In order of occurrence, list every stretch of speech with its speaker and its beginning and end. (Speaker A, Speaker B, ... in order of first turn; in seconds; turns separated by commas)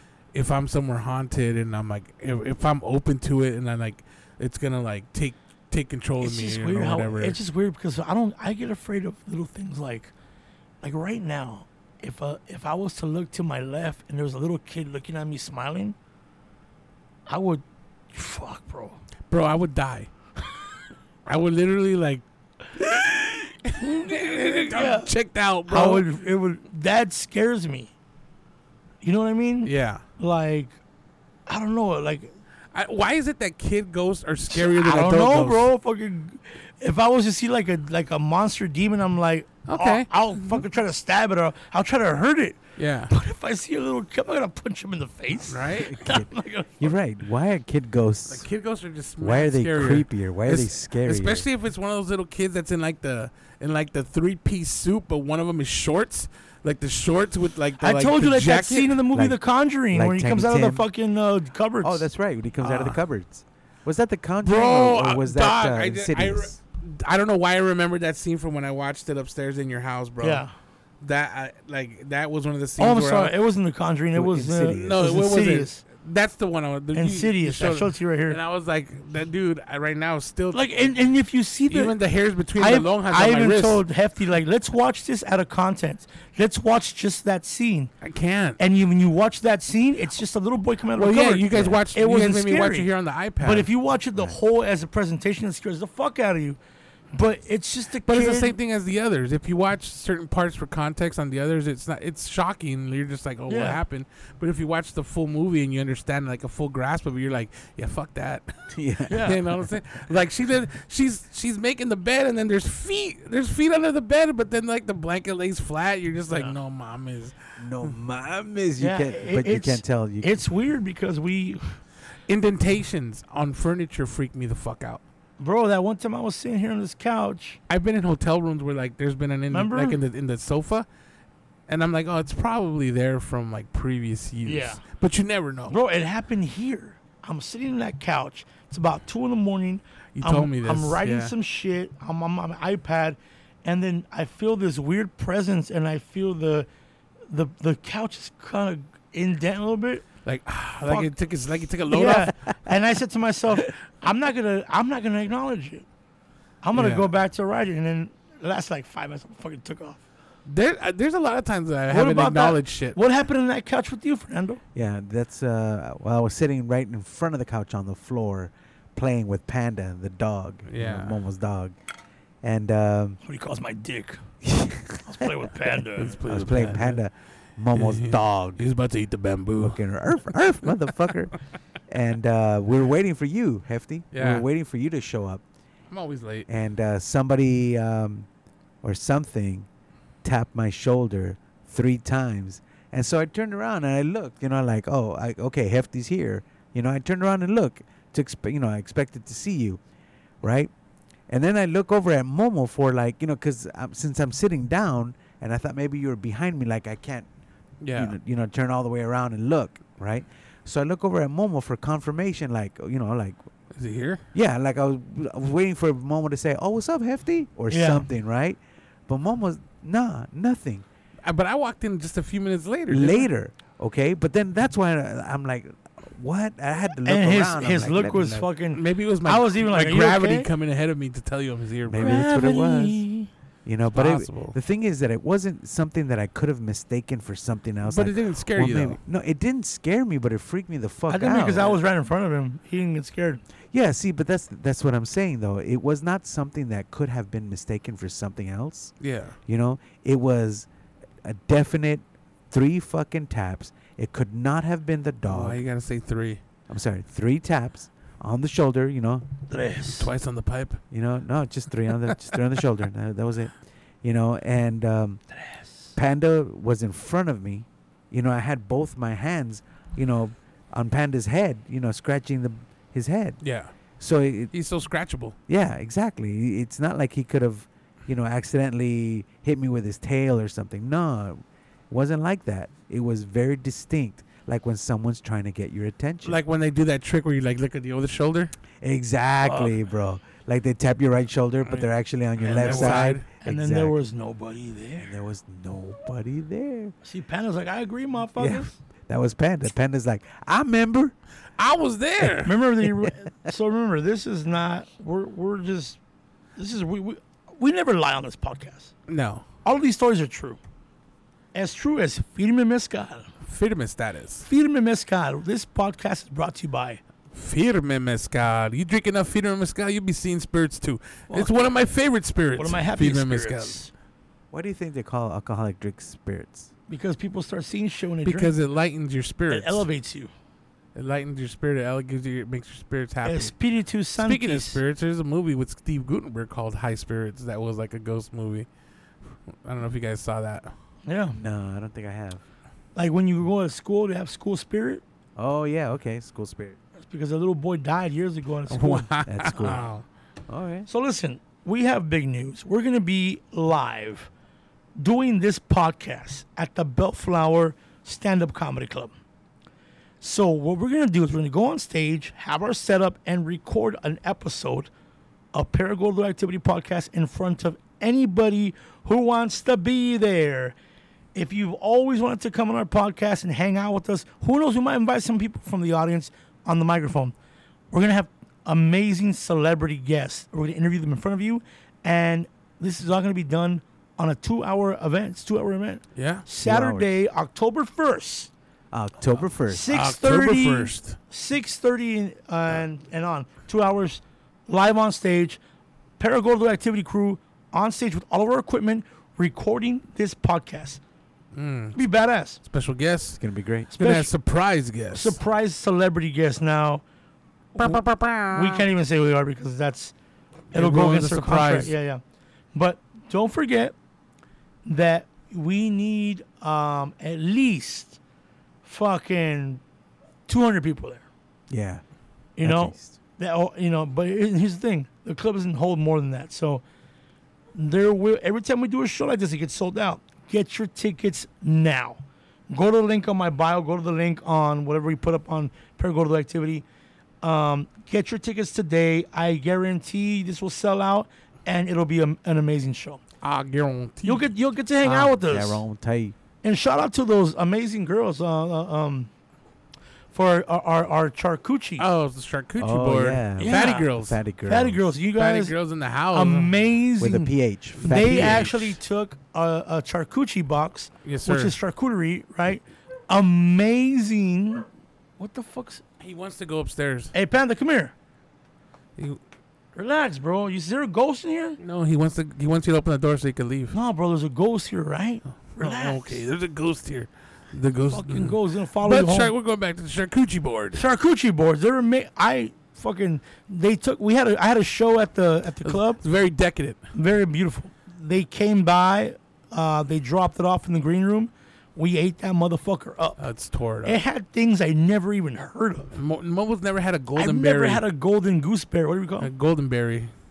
Speaker A: 0.3-7.4, Speaker B: 6.2-10.1, Speaker B: 10.8-15.9, Speaker B: 17.3-19.0, Speaker A: 19.3-20.1, Speaker A: 21.2-22.2, Speaker A: 22.7-26.0, Speaker B: 23.8-25.1, Speaker B: 25.7-27.9, Speaker B: 29.0-30.7, Speaker A: 29.6-30.0, Speaker B: 31.5-32.3, Speaker A: 32.7-35.7, Speaker B: 34.5-47.0, Speaker A: 39.7-40.6, Speaker A: 42.8-43.1, Speaker A: 45.4-46.0, Speaker C: 45.9-48.5, Speaker A: 48.3-59.0, Speaker C: 49.2-51.5, Speaker B: 57.8-62.0, Speaker C: 59.1-59.4, Speaker C: 59.9-60.8, Speaker C: 61.8-66.6, Speaker B: 62.6-62.9, Speaker A: 64.4-70.4, Speaker B: 70.2-70.5, Speaker A: 71.0-73.3, Speaker B: 72.8-75.8, Speaker C: 74.1-75.0, Speaker A: 74.8-80.9, Speaker B: 76.9-78.4, Speaker B: 80.5-82.0, Speaker A: 81.7-83.8, Speaker B: 82.5-87.9, Speaker A: 88.0-88.6, Speaker B: 88.6-96.6, Speaker A: 90.9-93.7, Speaker C: 91.5-91.8, Speaker B: 97.1-98.5, Speaker A: 98.0-117.9, Speaker B: 103.5-103.8, Speaker C: 108.7-109.3, Speaker B: 109.1-109.4, Speaker B: 116.3-116.5, Speaker C: 117.6-120.4, Speaker B: 118.8-121.8, Speaker A: 122.3-125.0, Speaker B: 125.4-127.6, Speaker A: 127.7-130.8, Speaker B: 129.5-130.0, Speaker A: 131.7-135.8, Speaker B: 134.4-134.8, Speaker B: 135.7-146.7, Speaker A: 140.1-141.3, Speaker B: 147.3-150.1, Speaker A: 150.2-152.3, Speaker B: 150.8-151.1, Speaker B: 151.9-155.8, Speaker B: 156.6-160.0, Speaker A: 156.7-157.1, Speaker A: 160.4-163.0, Speaker B: 161.9-164.6, Speaker C: 164.7-171.7, Speaker A: 170.7-171.2, Speaker C: 172.4-173.2, Speaker B: 173.2-174.2, Speaker C: 174.4-175.3, Speaker B: 175.0-176.2, Speaker A: 176.0-177.0, Speaker C: 176.2-178.6, Speaker A: 177.7-179.8, Speaker C: 179.6-181.3, Speaker C: 181.9-185.4, Speaker A: 184.1-184.4, Speaker A: 185.9-186.5, Speaker C: 186.5-188.3, Speaker C: 188.8-189.7, Speaker C: 190.2-199.8, Speaker C: 200.4-200.7, Speaker C: 201.3-207.3, Speaker A: 207.8-208.2, Speaker C: 207.9-213.4, Speaker A: 213.7-214.2, Speaker C: 214.3-220.8, Speaker B: 217.7-218.0, Speaker A: 221.2-223.3, Speaker C: 222.9-228.5, Speaker B: 227.0-230.5, Speaker A: 228.7-232.2, Speaker C: 231.8-233.0, Speaker B: 232.0-233.3, Speaker C: 233.6-241.8, Speaker A: 233.9-234.6, Speaker A: 237.8-239.0, Speaker B: 241.1-243.4, Speaker C: 243.7-248.9, Speaker A: 249.0-249.4, Speaker C: 249.4-250.7, Speaker C: 251.2-255.6, Speaker A: 255.2-256.4, Speaker C: 256.7-259.3, Speaker B: 259.5-260.1, Speaker A: 259.9-260.8, Speaker C: 260.9-265.2, Speaker C: 265.9-273.4, Speaker A: 273.4-273.7, Speaker C: 274.0-274.5, Speaker A: 274.5-275.4, Speaker C: 275.5-286.4, Speaker A: 286.2-288.5, Speaker C: 288.8-294.0, Speaker B: 289.4-289.8, Speaker A: 292.4-293.2, Speaker B: 292.4-295.1, Speaker C: 295.0-296.9, Speaker B: 297.0-298.8, Speaker C: 298.4-301.1, Speaker A: 301.6-302.6, Speaker B: 302.4-306.0, Speaker B: 306.6-308.9, Speaker A: 309.1-309.4, Speaker B: 309.6-310.6, Speaker B: 311.5-313.3, Speaker A: 313.4-314.5, Speaker B: 314.4-317.0, Speaker A: 317.3-323.8, Speaker B: 321.3-321.6, Speaker B: 322.5-323.9, Speaker C: 324.5-326.7, Speaker B: 326.9-328.5, Speaker A: 328.2-329.9, Speaker B: 329.5-330.3, Speaker A: 330.9-333.5, Speaker B: 333.2-334.8, Speaker A: 334.2-338.7, Speaker A: 339.5-340.7, Speaker B: 341.1-341.4, Speaker C: 341.3-342.4, Speaker B: 342.9-345.0, Speaker C: 345.4-346.8, Speaker B: 347.0-349.8, Speaker A: 348.7-350.0, Speaker C: 349.3-349.9, Speaker C: 350.5-350.9, Speaker B: 350.9-354.3, Speaker B: 355.0-359.1, Speaker B: 360.2-364.9, Speaker B: 365.5-370.8, Speaker B: 371.3-377.3, Speaker B: 377.9-388.5, Speaker A: 386.1-386.4, Speaker C: 386.6-387.1, Speaker C: 388.9-389.9, Speaker B: 389.7-395.6, Speaker A: 389.9-391.2, Speaker B: 396.2-401.0, Speaker A: 401.5-402.0, Speaker B: 401.9-402.6, Speaker A: 402.6-403.4, Speaker C: 403.4-403.9, Speaker A: 403.9-405.4, Speaker B: 404.0-404.3, Speaker B: 405.1-407.0, Speaker B: 407.7-410.1, Speaker A: 407.8-408.8, Speaker A: 410.7-411.9, Speaker B: 410.7-412.2, Speaker B: 412.7-413.9, Speaker B: 414.9-418.2, Speaker B: 418.8-419.8, Speaker B: 420.5-421.2, Speaker C: 421.7-422.0, Speaker B: 422.6-426.8, Speaker C: 422.6-423.1, Speaker B: 427.7-436.8, Speaker B: 437.4-443.2, Speaker A: 443.4-444.4, Speaker B: 444.2-445.8, Speaker C: 445.0-446.4, Speaker B: 446.6-449.3, Speaker B: 450.3-452.0, Speaker A: 452.0-454.4, Speaker C: 452.8-455.1, Speaker B: 453.6-454.1, Speaker B: 454.6-455.8, Speaker A: 455.4-456.7, Speaker B: 456.3-464.9, Speaker C: 457.2-458.7, Speaker A: 457.9-459.0, Speaker A: 461.2-461.7, Speaker B: 465.4-466.0, Speaker A: 466.2-467.3, Speaker B: 467.3-468.1, Speaker B: 469.9-471.8, Speaker A: 471.8-474.0, Speaker B: 473.9-476.4, Speaker A: 475.8-481.0, Speaker B: 478.1-479.5, Speaker B: 480.9-486.2, Speaker A: 485.8-487.0, Speaker B: 487.1-493.4, Speaker A: 493.4-494.2, Speaker B: 494.0-496.1, Speaker A: 496.1-498.0, Speaker B: 497.4-499.5, Speaker A: 499.4-500.3